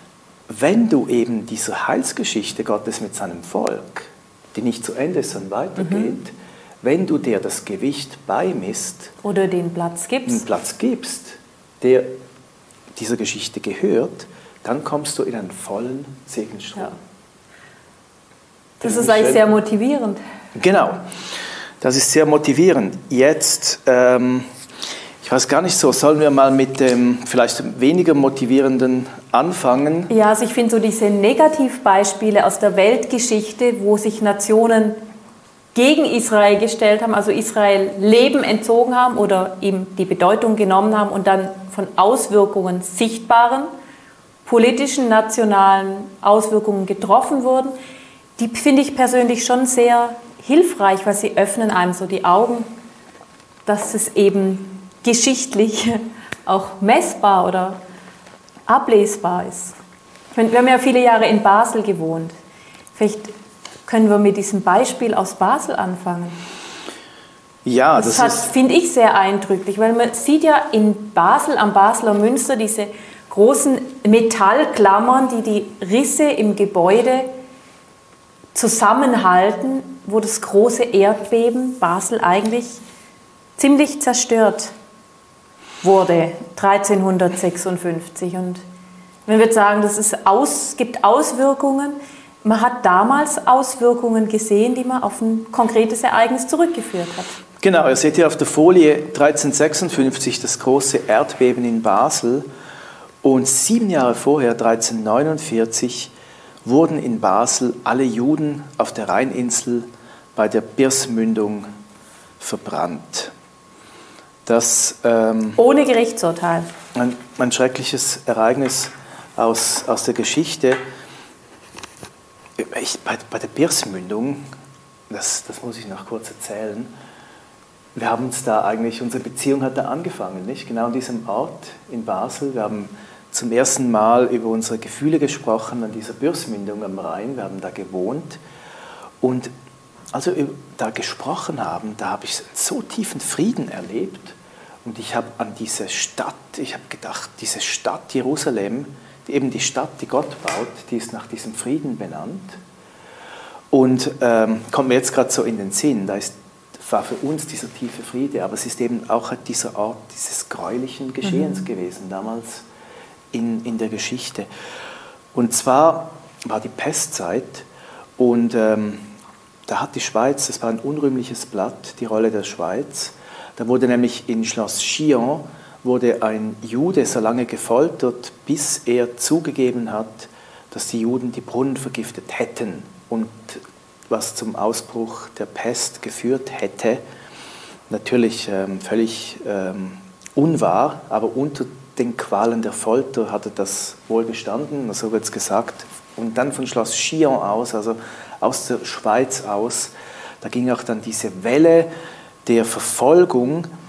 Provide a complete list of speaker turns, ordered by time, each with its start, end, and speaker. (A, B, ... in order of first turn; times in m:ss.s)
0:00.5-0:09.1 A
0:05.8-0:06.2 B
0:09.2-0:10.4 B
0:10.2-0:12.1 A
0:12.9-0:16.9 A
0:18.8-0:20.2 B
0:18.8-0:19.4 A
0:20.5-0:21.0 A
0:21.8-0:24.5 A
0:25.2-0:30.1 A
0:30.1-0:35.0 B
0:35.7-0:43.7 B
0:44.4-0:47.7 B
0:48.4-0:52.7 B
0:53.6-0:57.8 B
0:58.7-0:59.7 B
1:00.3-1:02.3 B
1:02.9-1:03.3 B
1:03.8-1:06.4 B
1:07.6-1:08.5 A
1:07.9-1:17.3 B
1:18.5-1:22.8 B
1:23.6-1:24.7 B
1:25.8-1:28.6 B
1:29.3-1:37.4 B
1:37.6-1:42.5 A
1:43.2-1:46.1 A
1:46.6-1:51.7 A
1:52.4-1:53.3 A
1:54.4-1:55.6 A
1:55.6-1:56.7 B
1:56.9-2:00.8 A
2:02.6-2:04.4 A
2:05.1-2:06.9 A
2:07.9-2:18.4 A
2:19.2-2:19.5 A
2:20.1-2:32.6 A
2:33.7-2:42.6 A
2:43.3-2:44.5 A
2:45.3-2:47.6 A
2:48.2-2:49.1 A
2:49.7-3:07.0 A
3:07.9-3:21.9 A
3:22.4-3:23.7 A